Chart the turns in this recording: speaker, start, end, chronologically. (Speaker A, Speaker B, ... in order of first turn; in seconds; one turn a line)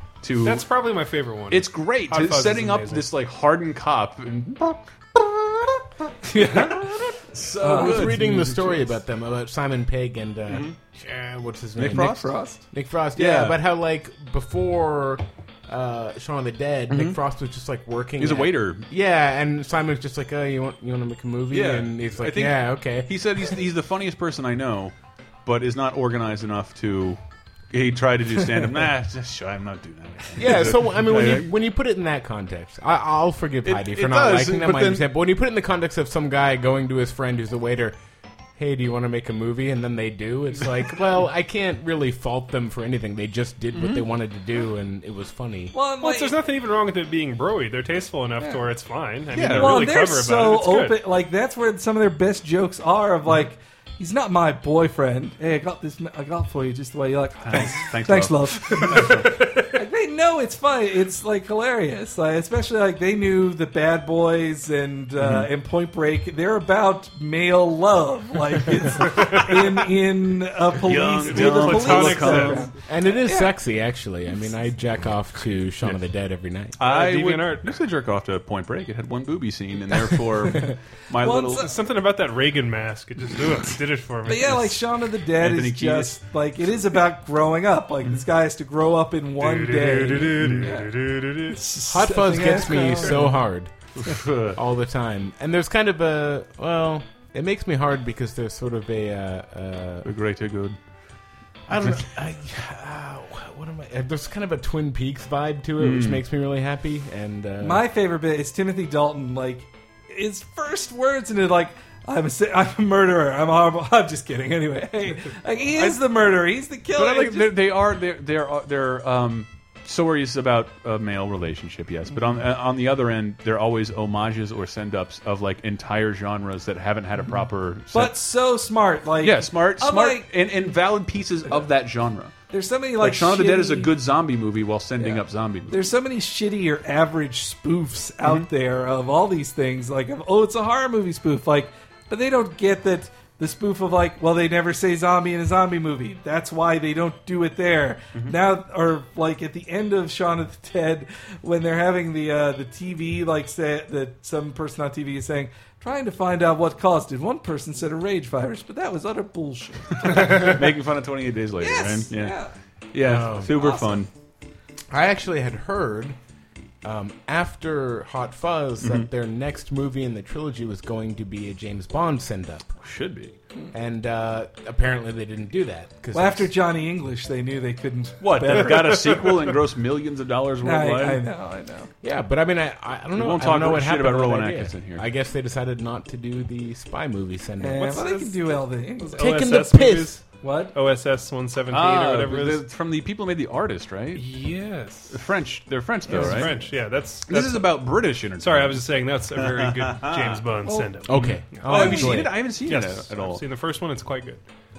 Speaker A: 0.2-0.7
Speaker B: 0.4-3.1
Speaker A: 1.5-8.9
Speaker C: 6.2-7.1
Speaker C: 7.6-8.2
Speaker D: 7.6-23.2
Speaker A: 10.5-10.8
Speaker A: 11.8-12.4
Speaker C: 11.9-12.6
Speaker A: 13.1-13.6
Speaker A: 16.9-17.2
Speaker A: 18.2-18.9
Speaker A: 21.5-24.9
Speaker A: 25.4-27.2
Speaker A: 27.7-31.5
Speaker D: 30.4-38.0
Speaker A: 33.6-35.1
Speaker D: 38.6-45.8
Speaker A: 43.7-44.1
Speaker C: 45.7-46.4
Speaker B: 46.0-51.0
Speaker A: 49.3-49.9
Speaker C: 49.3-73.5
Speaker A: 57.4-59.5
Speaker A: 65.2-65.5
Speaker A: 70.8-72.7
Speaker B: 71.2-72.7
Speaker D: 72.8-76.8
Speaker A: 76.8-81.7
Speaker B: 76.8-77.7
Speaker C: 81.2-81.7
Speaker B: 81.5-84.8
Speaker C: 84.3-90.9
Speaker A: 85.3-86.2
Speaker B: 89.4-91.6
Speaker A: 90.3-90.8
Speaker C: 91.5-93.3
Speaker D: 91.9-93.7
Speaker B: 92.7-93.2
Speaker A: 93.9-94.6
Speaker D: 94.5-100.1
Speaker A: 100.0-100.8
Speaker D: 101.7-107.8
Speaker A: 105.8-106.2
Speaker C: 107.6-117.6
Speaker A: 115.7-116.1
Speaker A: 116.9-128.1
Speaker C: 127.9-130.3
Speaker A: 129.2-132.4
Speaker C: 132.5-134.0
Speaker A: 132.9-135.9
Speaker C: 135.0-160.6
Speaker A: 160.0-162.4
Speaker C: 161.6-162.5
Speaker A: 162.9-164.1
Speaker D: 163.0-163.5
Speaker C: 163.5-164.1
Speaker D: 164.9-166.2
Speaker D: 166.8-172.7
Speaker A: 168.8-169.1
Speaker A: 172.8-173.3
Speaker D: 173.7-176.5
Speaker C: 176.1-179.3
Speaker A: 178.2-181.2
Speaker C: 180.6-181.9
Speaker D: 182.0-188.0
Speaker A: 183.1-185.1
Speaker C: 187.6-189.3
Speaker B: 187.8-192.7
Speaker D: 189.2-190.2
Speaker C: 190.4-190.7
Speaker A: 191.7-194.4
Speaker B: 194.2-195.1
Speaker A: 195.1-200.4
Speaker C: 196.1-196.7
Speaker B: 196.1-204.4
Speaker C: 200.6-200.9
Speaker D: 201.1-202.3
Speaker A: 201.1-203.4